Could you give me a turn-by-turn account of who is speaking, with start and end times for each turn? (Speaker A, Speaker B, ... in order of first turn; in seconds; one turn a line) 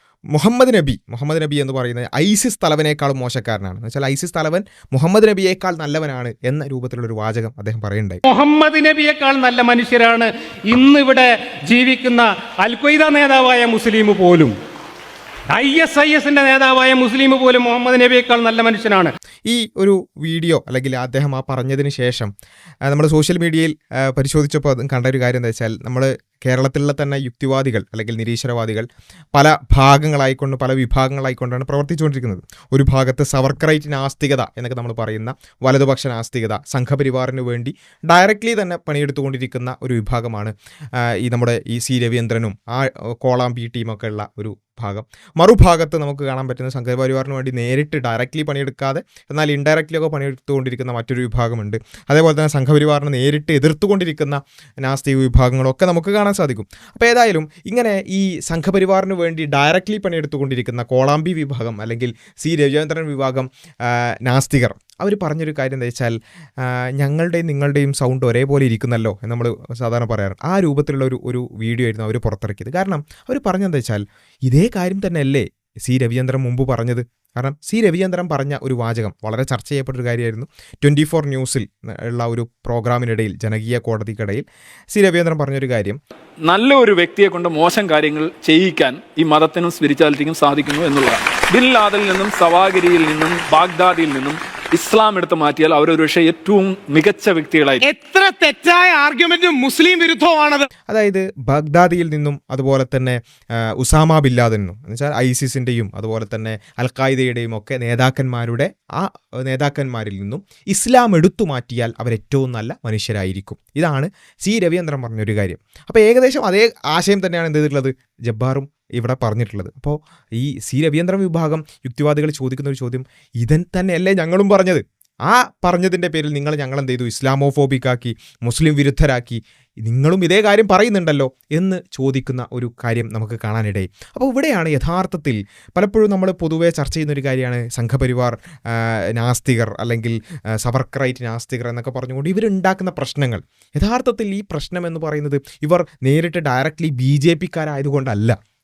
Speaker A: 0.3-8.2
Speaker B: 8.2-14.6
Speaker B: 15.5-19.1
Speaker A: 19.5-22.3
Speaker A: 22.9-86.0
Speaker C: 86.4-97.8
Speaker B: 97.8-100.7
Speaker A: 100.9-103.2
Speaker A: 103.8-148.3